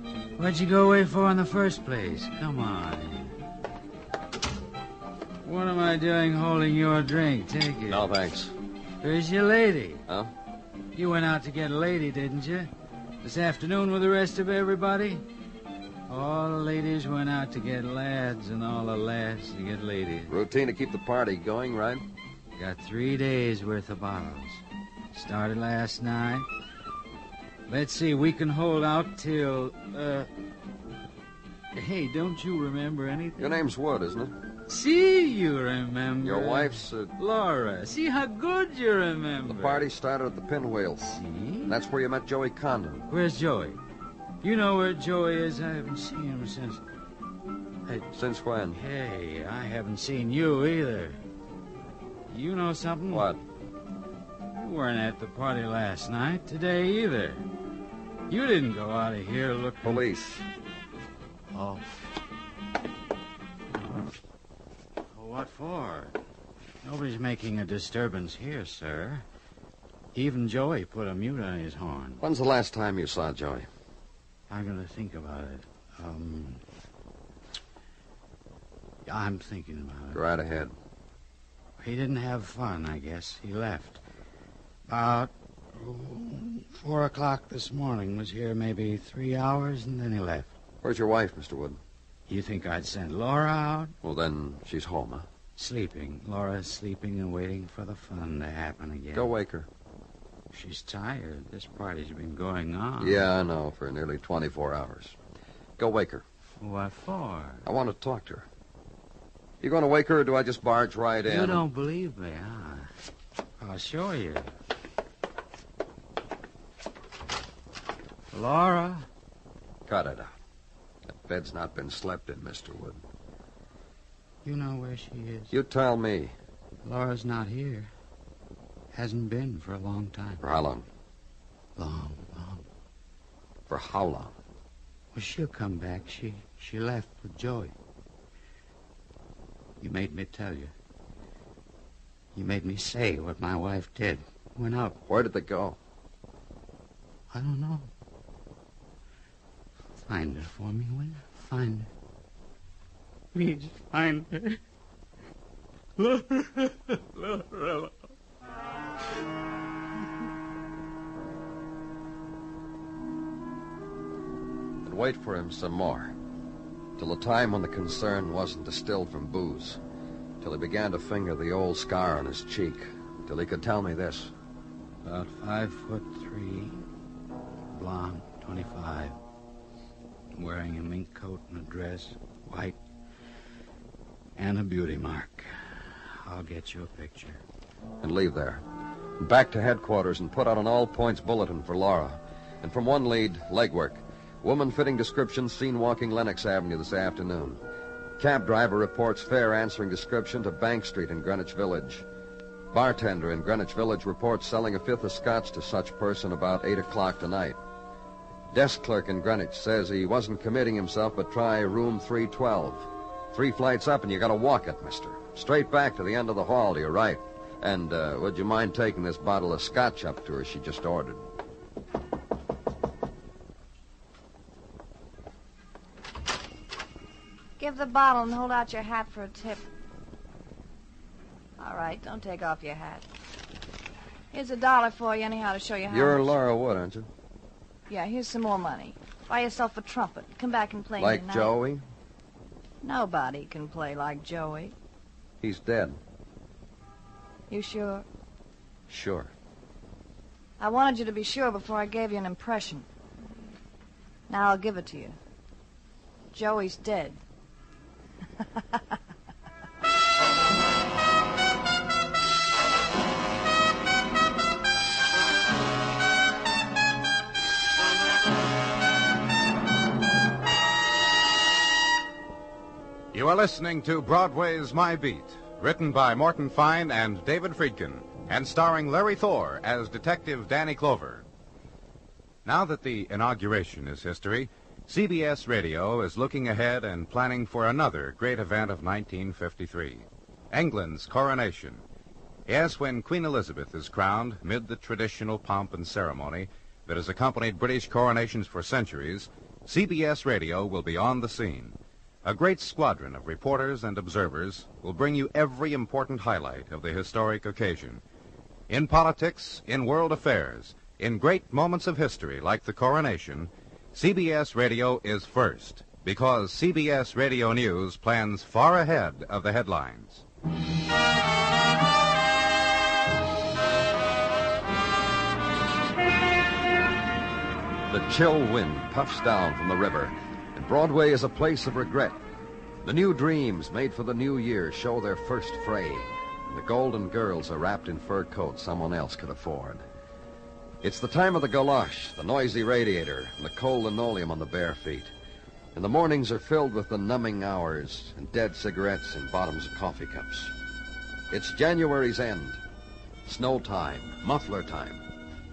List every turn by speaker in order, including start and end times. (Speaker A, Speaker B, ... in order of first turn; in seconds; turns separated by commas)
Speaker A: 0.4-3.3, Speaker A: 5.4-8.1, Speaker B: 7.9-8.6, Speaker A: 9.0-10.1, Speaker B: 10.1-10.3, Speaker A: 10.9-12.7, Speaker A: 13.2-15.2, Speaker A: 16.1-20.4, Speaker B: 20.3-22.1, Speaker A: 22.6-26.5, Speaker A: 27.7-30.3, Speaker A: 31.7-33.7, Speaker B: 33.4-34.4, Speaker A: 34.7-39.9, Speaker B: 36.2-37.1, Speaker B: 39.5-41.2, Speaker A: 41.0-41.8, Speaker B: 41.7-43.1, Speaker A: 43.1-43.8, Speaker A: 44.4-46.8, Speaker B: 48.1-48.8, Speaker A: 48.7-51.2, Speaker A: 52.3-53.3, Speaker B: 53.1-53.4, Speaker A: 54.5-57.4, Speaker A: 58.3-60.0, Speaker B: 59.8-60.4, Speaker A: 61.5-61.9, Speaker A: 65.1-66.2, Speaker A: 66.8-69.2, Speaker A: 70.1-72.2, Speaker B: 72.2-73.7, Speaker A: 74.5-76.6, Speaker A: 79.1-80.2, Speaker B: 80.1-80.7, Speaker A: 81.8-84.0, Speaker A: 84.9-90.5, Speaker B: 90.8-91.8, Speaker A: 92.3-93.9, Speaker B: 94.0-95.3, Speaker A: 95.6-99.3, Speaker B: 99.1-99.7, Speaker A: 100.5-103.3, Speaker B: 103.0-105.2, Speaker B: 105.8-106.2, Speaker A: 106.6-107.7, Speaker B: 107.7-108.5, Speaker B: 109.6-111.6, Speaker A: 111.2-112.9, Speaker A: 113.6-114.5, Speaker A: 118.3-119.1, Speaker B: 119.9-120.3, Speaker B: 121.1-123.0, Speaker A: 124.4-125.5, Speaker B: 125.5-126.3, Speaker A: 126.8-127.9, Speaker A: 128.9-130.4, Speaker B: 130.4-130.9, Speaker A: 131.8-132.6, Speaker B: 133.7-134.3, Speaker A: 135.1-137.7, Speaker A: 139.8-140.7, Speaker A: 142.3-145.0, Speaker B: 145.1-145.8, Speaker A: 147.3-147.9, Speaker A: 150.1-151.9, Speaker A: 153.3-154.6, Speaker A: 156.0-158.0, Speaker B: 164.8-166.1, Speaker B: 167.0-169.8, Speaker B: 170.4-174.3, Speaker A: 175.1-176.8, Speaker A: 177.7-179.2, Speaker A: 180.4-182.8, Speaker A: 184.4-187.4, Speaker B: 188.0-188.6, Speaker B: 189.2-197.6, Speaker B: 198.2-202.1, Speaker B: 202.7-207.6, Speaker B: 208.5-221.2, Speaker C: 227.6-229.7, Speaker C: 231.6-233.1, Speaker C: 234.3-236.4, Speaker B: 235.9-237.1, Speaker C: 237.9-241.5, Speaker B: 241.0-241.8, Speaker C: 242.8-244.7, Speaker B: 245.4-246.0, Speaker C: 247.5-248.1, Speaker B: 248.9-249.3, Speaker C: 250.6-252.9, Speaker C: 254.3-255.2, Speaker C: 256.3-257.2, Speaker D: 273.1-281.2, Speaker D: 282.4-291.8, Speaker D: 292.5-308.0, Speaker D: 308.7-320.2, Speaker B: 327.9-332.2, Speaker B: 332.8-339.8, Speaker B: 340.8-345.1, Speaker B: 345.8-350.5, Speaker B: 351.3-352.6, Speaker B: 353.3-355.0